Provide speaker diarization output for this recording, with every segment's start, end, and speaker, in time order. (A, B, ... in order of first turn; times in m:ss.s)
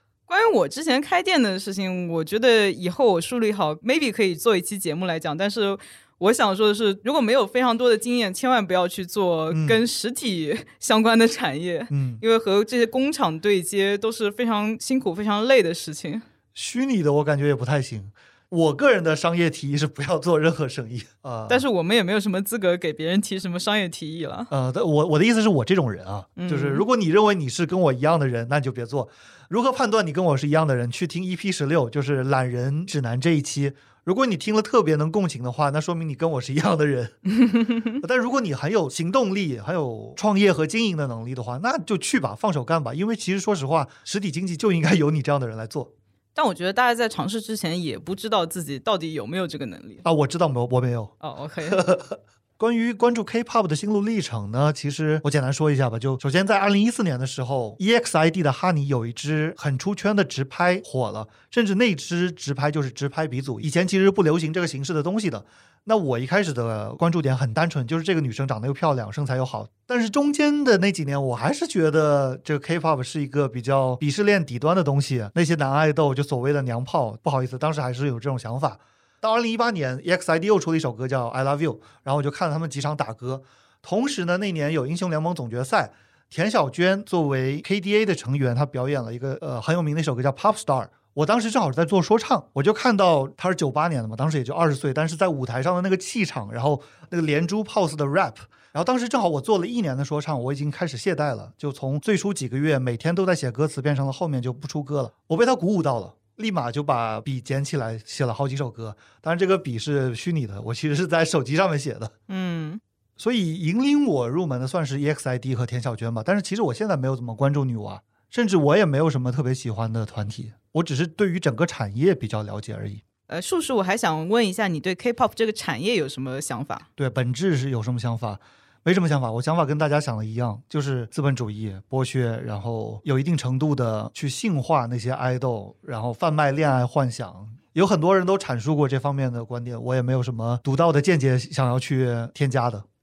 0:00.3-0:16.2 A
0:09.5-0:09.8 B
0:11.9-0:12.2 B
0:16.5-0:21.6 B
0:21.5-0:24.5 A
0:24.5-0:37.2 B
0:26.4-0:26.8 A
0:37.4-0:38.0 A
0:38.0-0:45.9 B
0:46.3-0:50.0 A
0:50.0-0:51.1 B
0:51.2-0:51.8 A
0:51.7-1:52.1 B
1:52.3-1:52.8 A
1:53.2-2:03.0 B
2:03.3-2:06.9 A
2:07.0-2:22.8 B